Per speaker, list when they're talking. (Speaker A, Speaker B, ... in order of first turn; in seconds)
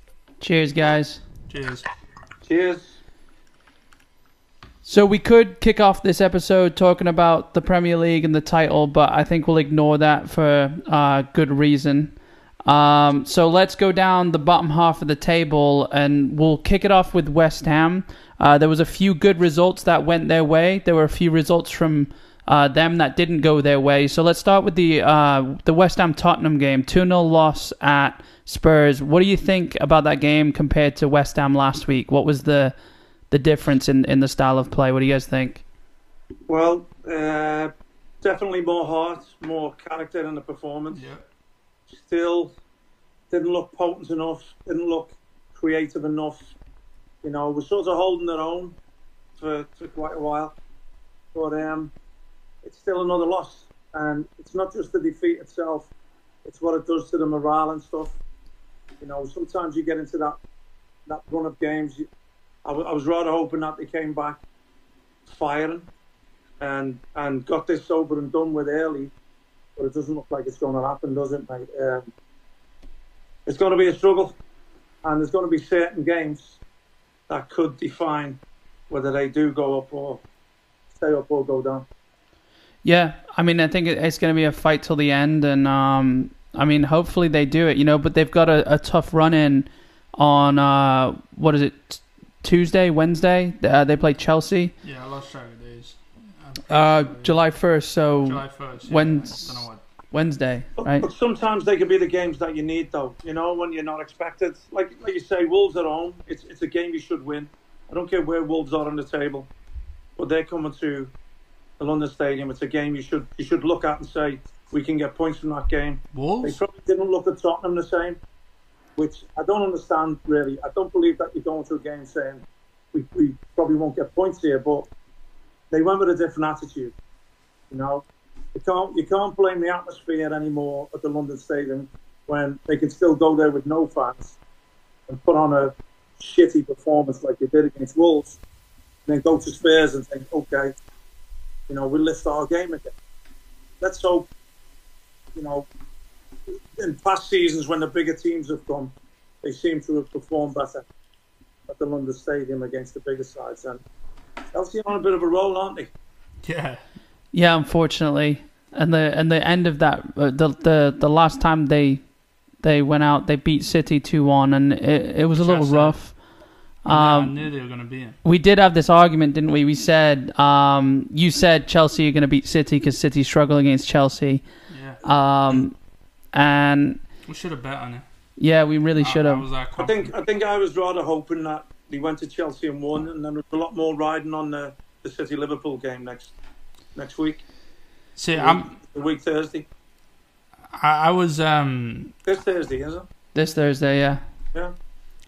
Speaker A: 0.4-1.2, 4.8-32.7, 33.3-35.6, 82.8-94.7, 96.7-101.1, 157.3-162.0, 162.6-166.2, 166.8-167.4, 168.2-174.4, 175.0-175.8, 176.3-177.0, 178.4-179.4, 193.3-194.2
Speaker B: 1.5-1.9, 40.9-41.2, 94.8-97.3, 98.2-99.8, 116.1-116.6, 156.4-156.8, 165.3-166.0, 166.9-168.2, 174.7-175.0, 177.3-178.0, 179.0-180.1, 188.2-188.8, 190.7-192.1
Speaker C: 2.5-3.0, 36.5-41.0, 41.9-42.5, 43.3-46.5, 47.2-48.8, 49.4-50.5, 51.3-51.9, 52.6-55.9, 56.4-58.1, 59.0-60.4, 61.1-62.0, 62.6-64.4, 65.2-65.9, 66.6-69.1, 69.8-72.1, 73.5-74.3, 75.0-76.6, 77.3-80.2, 81.0-81.8, 100.8-109.5, 110.2-111.1, 111.8-118.2, 119.0-124.9, 125.7-126.9, 127.7-134.4, 135.1-138.4, 139.1-140.7, 141.7-142.9, 143.8-144.3, 145.3-145.7, 146.8-150.8, 151.7-153.8, 154.5-155.9, 179.8-186.3, 186.9-187.4, 188.3-189.7, 192.2-193.1